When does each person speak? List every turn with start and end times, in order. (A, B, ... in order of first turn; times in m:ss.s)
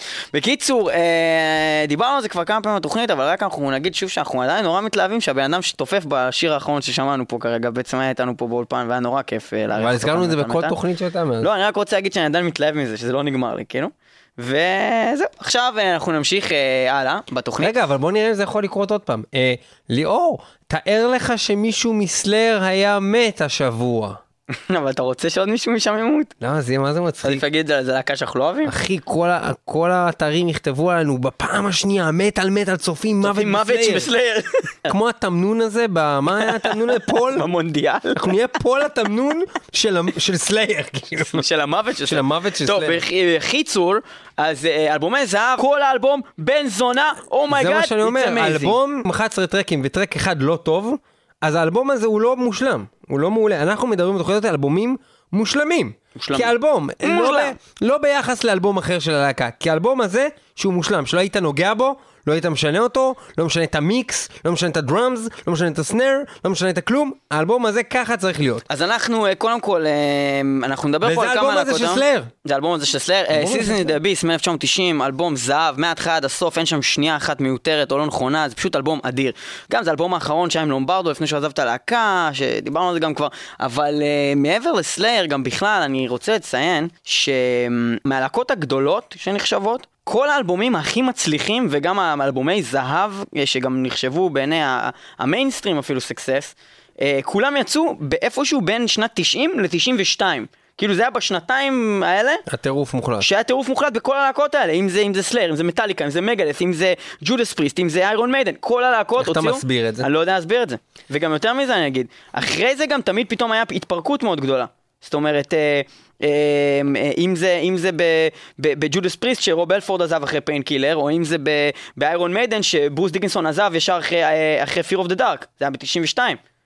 0:00.3-0:10.8 A
0:09.8-0:11.5 B
0:11.4-0:17.8 A
0:17.6-0:24.2 B
0:24.5-0:26.3 A
0:26.4-0:27.4 B
0:27.2-0:28.7 A
0:28.7-0:34.1 B
0:33.2-0:34.9 A
0:34.9-0:37.5 B
0:36.4-0:38.3 A
0:38.2-0:41.4 B
0:41.3-0:48.8 A
0:42.0-0:43.0 B
0:47.5-1:08.6 B
0:56.2-0:57.6 A
1:08.7-1:42.4 A
1:11.0-1:12.3 B
1:13.3-1:14.0 B
1:42.5-1:43.3 B
1:43.2-2:06.4 A
1:49.2-1:50.1 B